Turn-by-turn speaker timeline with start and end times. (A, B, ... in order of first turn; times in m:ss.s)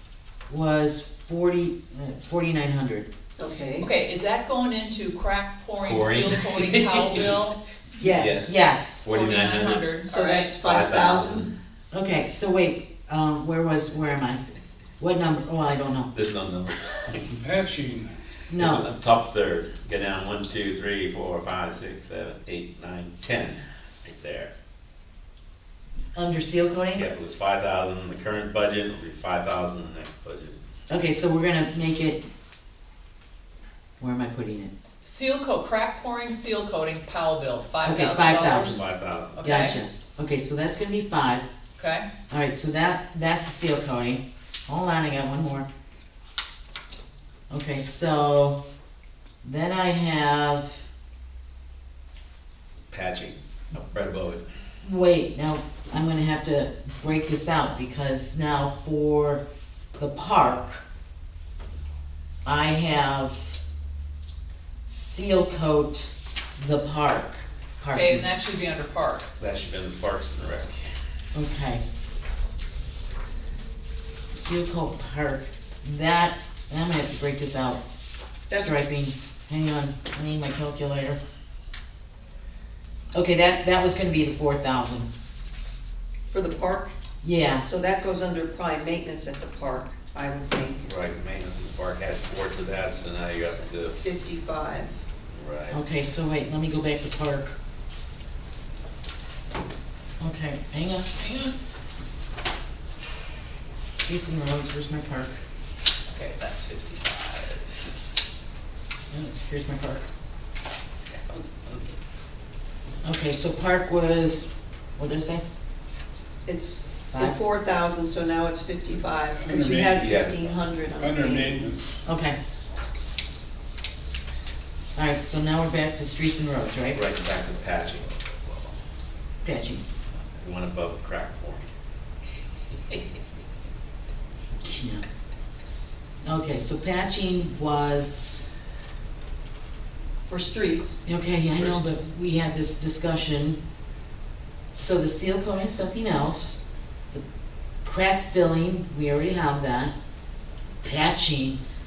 0:00.5-0:03.1 A
0:03.4-0:03.9 B
0:03.8-0:07.6 C
0:05.8-0:07.4 D
0:08.0-0:08.5 B
0:08.1-0:09.9 D
0:08.4-0:09.1 A
0:09.1-0:10.5 C
0:10.0-0:11.5 B
0:10.6-0:11.5 D
0:11.9-0:14.4 A
0:15.0-0:16.1 A
0:16.1-0:17.3 D
0:17.2-0:18.1 E
0:18.5-0:18.9 A
0:18.6-0:24.5 D
0:26.1-0:27.1 A
0:26.9-0:30.6 D
0:30.9-0:32.2 A
0:34.0-0:34.7 A
0:35.0-0:38.8 C
0:37.8-0:38.8 A
0:38.0-0:39.5 D
0:39.4-0:39.8 C
0:39.4-0:41.4 A
0:41.8-0:42.0 C
0:42.3-0:45.7 A
0:47.5-0:48.6 A
0:49.4-0:50.8 A
0:52.9-0:54.4 D
0:54.8-0:59.4 A
1:00.0-1:00.8 A
1:02.4-1:03.6 A
1:04.9-1:08.3 A
1:07.9-1:09.3 C
1:09.4-1:10.8 D
1:11.3-1:11.8 A
1:14.3-1:17.8 A
1:18.5-1:21.2 A
1:23.1-1:25.1 A
1:26.3-1:26.9 B
1:27.2-1:27.6 A
1:27.6-1:30.9 B
1:30.8-1:34.0 D
1:33.5-1:35.0 B
1:35.3-1:35.8 D
1:35.7-1:37.6 A
1:40.2-1:41.4 A
1:44.0-1:45.4 A
1:46.1-1:47.8 C
1:49.1-1:50.1 A
1:53.0-1:55.4 A
1:56.4-2:01.8 B
1:57.1-1:57.4 A
1:59.4-2:00.1 E
2:00.0-2:00.6 D
2:01.0-2:02.0 E
2:02.1-2:02.4 A
2:05.0-2:07.0 A
2:06.9-2:08.8 D
2:09.4-2:09.8 A
2:10.4-2:11.7 D
2:14.6-2:15.0 A
2:16.2-2:18.5 A
2:20.2-2:21.0 B
2:21.1-2:23.6 A
2:24.7-2:27.2 A
2:27.8-2:29.9 A
2:30.8-2:31.6 A